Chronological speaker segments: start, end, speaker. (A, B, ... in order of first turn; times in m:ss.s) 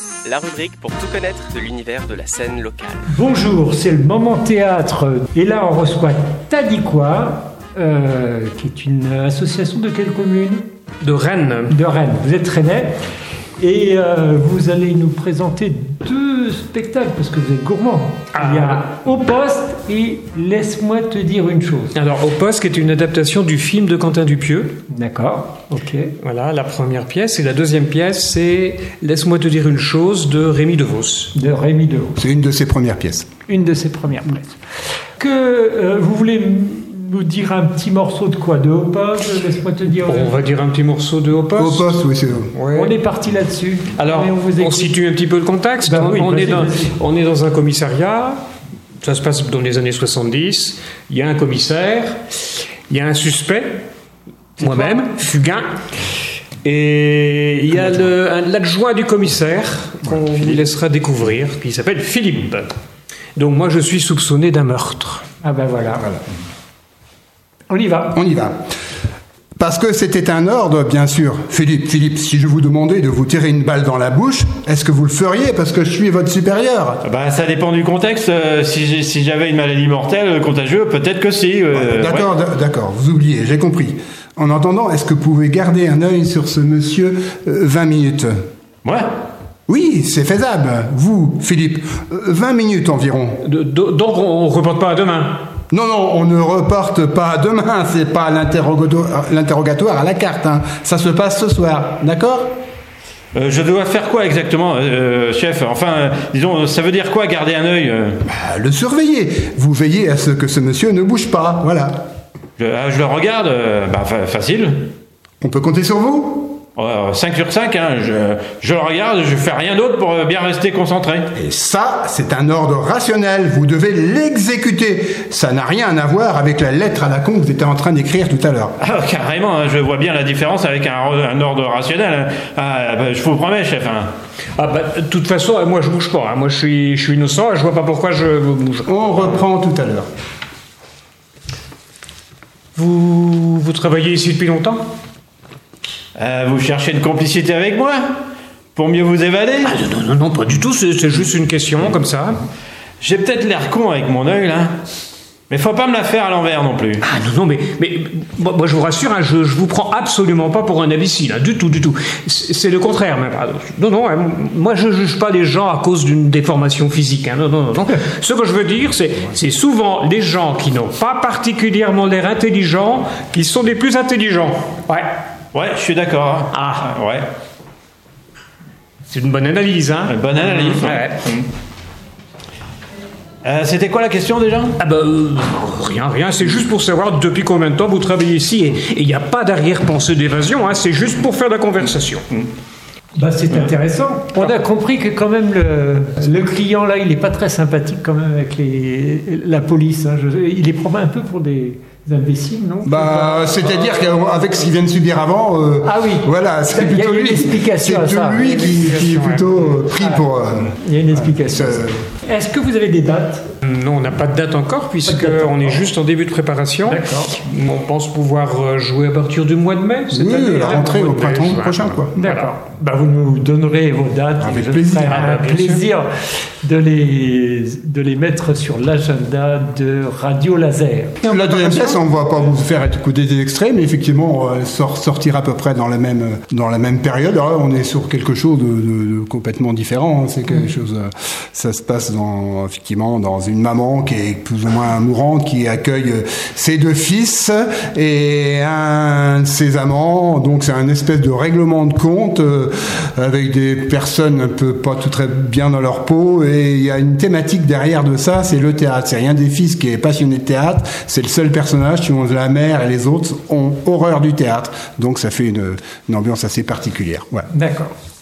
0:00.2-0:03.0 A
0:03.1-0:10.6 B
0:11.0-0:11.7 C
0:11.7-0:13.0 B
0:13.6-0:22.0 B
0:18.3-0:18.8 C
0:21.9-0:24.8 C
0:24.9-0:26.1 B
0:26.2-0:31.3 C
0:31.3-0:32.2 B
0:32.2-0:33.3 D
0:33.5-0:34.6 B
0:35.2-0:40.4 B
0:40.0-0:41.9 C
0:41.6-0:42.5 D
0:42.5-0:43.0 C
0:42.7-0:44.9 B
0:44.0-0:48.4 C
0:45.8-0:46.9 B
0:49.0-0:52.2 C
0:52.9-0:53.8 C
0:54.6-0:55.6 C
0:56.6-1:02.7 C
1:03.4-1:05.2 C
1:05.4-1:06.2 B
1:07.7-1:08.2 B
1:08.1-1:08.6 D
1:09.6-1:17.0 D
1:17.0-1:22.3 E
1:21.7-1:28.3 D
1:29.7-1:33.4 D
1:33.4-1:35.4 C
1:35.7-1:42.5 D
1:43.3-1:48.2 E
1:48.3-1:52.0 D
1:52.6-1:54.9 E
1:55.4-1:56.6 D
1:56.8-2:01.3 E
2:01.3-2:08.7 D
2:08.8-2:14.1 E
2:14.6-2:19.0 C
2:18.8-2:20.1 D
2:22.8-2:24.8 C
2:26.2-2:28.2 E
2:28.8-2:29.7 E
2:29.6-2:32.4 C
2:33.0-2:34.7 E
2:35.5-2:37.0 E
2:37.0-2:55.1 C
2:55.5-2:57.3 E
2:56.5-2:56.9 C
2:59.1-3:01.2 C
3:00.1-3:01.4 E
3:03.4-3:04.8 E
3:04.8-3:12.4 C
3:13.1-3:24.1 B
3:22.8-3:32.0 D
3:25.8-3:28.4 B
3:28.4-3:29.7 C
3:30.0-3:33.5 B
3:33.6-3:42.5 C
3:35.0-3:35.7 B
3:36.8-3:37.3 B
3:40.1-3:42.1 D
3:42.2-3:46.1 B
3:44.4-3:45.2 D
3:45.1-3:45.8 C
3:46.6-3:51.9 B
3:51.2-4:27.5 D
4:27.5-4:27.9 B